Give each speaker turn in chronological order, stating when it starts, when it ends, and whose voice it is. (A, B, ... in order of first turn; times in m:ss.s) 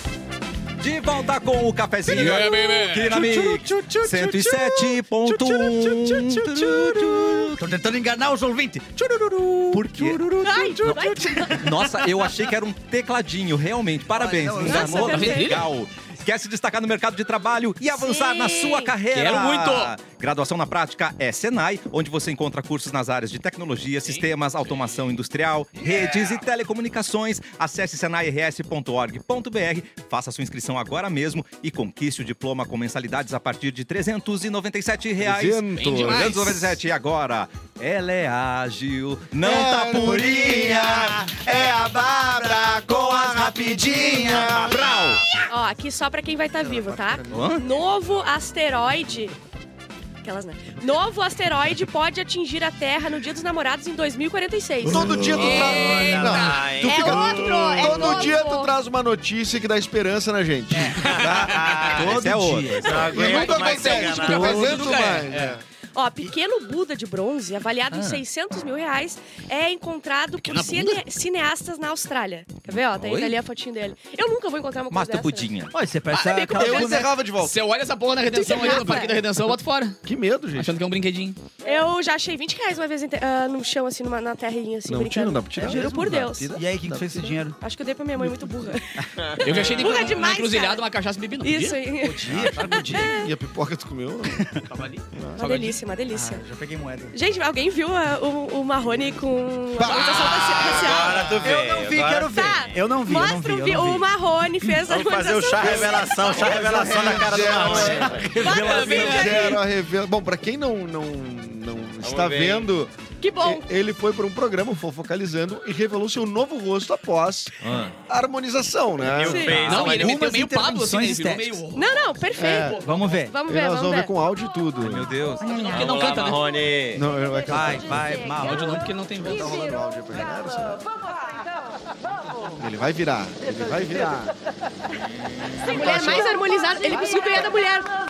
0:00.8-0:07.6 A
0:02.1-0:02.5 B
0:02.1-0:03.2 C
0:03.0-0:12.3 B
0:09.7-0:40.9 A
0:10.4-0:11.8 D
0:14.1-0:15.5 B
0:14.6-0:15.7 D
0:14.7-0:15.6 C
0:17.9-0:19.0 D
0:19.1-0:19.9 C
0:24.0-0:25.0 C
0:35.2-0:36.3 E
0:35.7-0:36.8 C
0:39.4-0:44.9 E
0:39.8-0:45.2 B
0:44.6-0:45.2 A
0:45.5-0:49.3 D
0:46.6-0:47.6 E
0:47.3-0:47.6 A
0:50.2-0:55.8 D
0:54.8-1:01.5 E
0:55.3-0:56.7 C
0:55.8-0:58.2 F
0:56.8-0:58.7 D
1:00.7-1:03.2 B
1:01.0-1:01.9 C
1:01.1-1:02.2 F
1:01.4-1:03.0 A
1:02.8-1:04.9 F
1:02.9-1:05.6 E
1:03.1-1:05.6 C
1:04.2-1:04.8 B
1:05.9-1:17.1 D
1:10.4-1:11.0 C
1:12.6-1:13.4 A
1:14.9-1:15.7 A
1:15.7-1:17.1 B
1:16.6-1:17.6 E
1:17.4-1:20.0 C
1:18.3-1:19.2 D
1:20.0-1:20.8 E
1:20.5-1:21.4 C
1:21.6-1:26.6 D
1:24.9-1:27.3 E
1:25.6-1:27.6 B
1:27.6-1:30.8 D
1:29.2-1:29.6 F
1:29.4-1:31.8 C
1:31.4-1:33.3 D
1:32.0-1:33.1 B
1:32.4-1:34.5 E
1:34.7-1:35.8 C
1:35.4-1:36.4 D
1:36.1-1:37.2 B
1:37.1-1:41.4 D
1:39.8-1:41.3 E
1:39.8-1:40.6 C
1:40.6-1:42.8 F
1:41.4-1:44.1 B
1:42.2-1:46.2 D
1:44.8-1:48.4 F
1:45.6-1:59.6 E
1:46.2-1:49.6 B
1:48.3-1:49.6 D
1:48.6-1:49.5 C
1:52.0-1:52.7 F
1:53.2-1:53.6 D
1:57.6-1:57.9 A
1:59.0-2:00.3 F
1:59.3-1:59.6 D
1:59.5-2:01.6 B
1:59.6-2:01.9 C
2:01.7-2:04.1 D
2:02.4-2:02.8 E
2:02.8-2:03.4 B
2:03.5-2:05.1 E
2:04.8-2:05.6 A
2:05.4-2:06.0 B
2:05.5-2:06.4 C
2:05.7-2:07.0 F
2:06.9-2:08.1 E
2:07.5-2:08.8 B
2:08.4-2:09.6 C
2:09.2-2:10.9 E
2:12.6-2:14.3 E
2:15.6-2:16.3 E
2:15.6-2:17.9 D